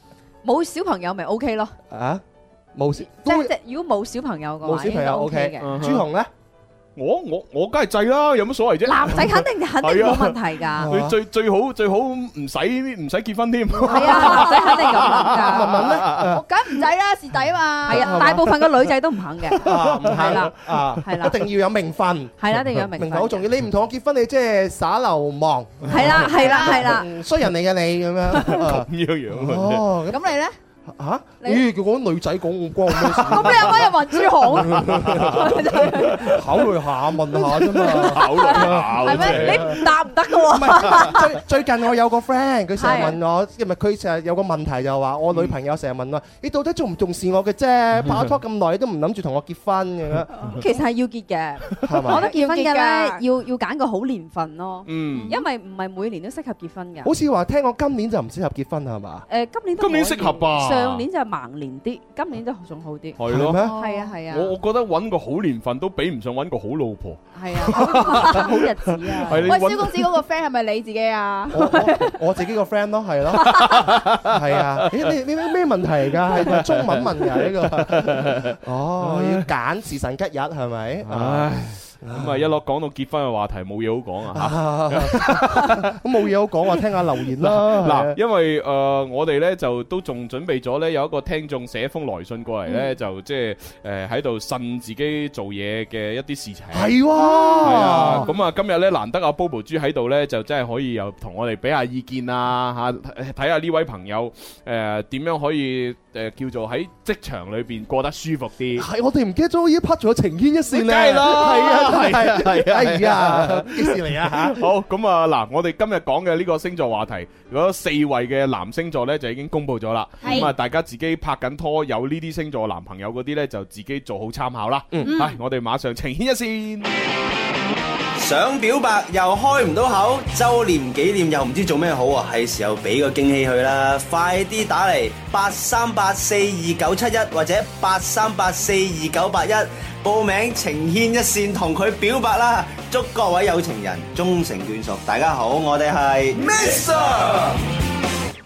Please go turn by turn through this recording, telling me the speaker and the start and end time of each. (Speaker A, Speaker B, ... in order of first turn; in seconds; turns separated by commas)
Speaker A: 0.4-1.7, Speaker B: 1.9-2.2, Speaker B: 2.7-3.5, Speaker A: 3.0-5.7, Speaker B: 4.6-6.3, Speaker C: 5.6-6.0, Speaker C: 7.0-16.3, Speaker A: 8.8-10.9, Speaker B: 10.8-11.2, Speaker A: 13.8-15.7, Speaker D: 13.9-15.1, Speaker B: 15.3-16.4, Speaker D: 16.2-18.2, Speaker A: 17.9-21.4, Speaker B: 17.9-18.5, Speaker C: 19.6-20.9, Speaker B: 19.6-30.3, Speaker A: 22.4-23.4, Speaker A: 25.9-27.1, Speaker D: 26.3-26.9, Speaker C: 28.3-29.9, Speaker D: 30.1-30.6, Speaker B: 30.9-33.9, Speaker C: 33.0-33.9, Speaker D: 33.3-34.8, Speaker B: 34.5-39.7, Speaker C: 34.6-36.3, Speaker D: 35.5-36.2, Speaker C: 37.5-39.9, Speaker D: 39.0-39.4, Speaker A: 39.0-41.3, Speaker B: 40.5-50.3, Speaker A: 42.8-43.1, Speaker D: 50.4-50.8, Speaker A: 50.5-57.1, Speaker B: 51.8-52.2, Speaker D: 52.1-53.2, Speaker C: 54.8-55.4, Speaker D: 55.1-55.4, Speaker B: 57.0-59.2, Speaker A: 59.3-64.5, Speaker C: 59.8-61.0, Speaker C: 63.2-63.6, Speaker B: 63.3-63.7, Speaker D: 63.6-64.2, Speaker C: 64.3-70.0, Speaker A: 67.3-69.5, Speaker D: 69.4-72.1, Speaker B: 71.5-73.7, Speaker C: 73.5-75.1, Speaker B: 74.2-81.5, Speaker C: 76.4-79.5, Speaker C: 81.0-85.9, Speaker B: 82.0-82.5, Speaker B: 84.3-88.2, Speaker C: 87.4-97.0, Speaker B: 96.7-98.2, Speaker D: 97.2-97.6, Speaker C: 97.6-108.8, Speaker B: 108.8-114.6, Speaker C: 110.7-126.9, Speaker D: 120.2-120.5, Speaker D: 125.0-125.3, Speaker E: 128.2-146.4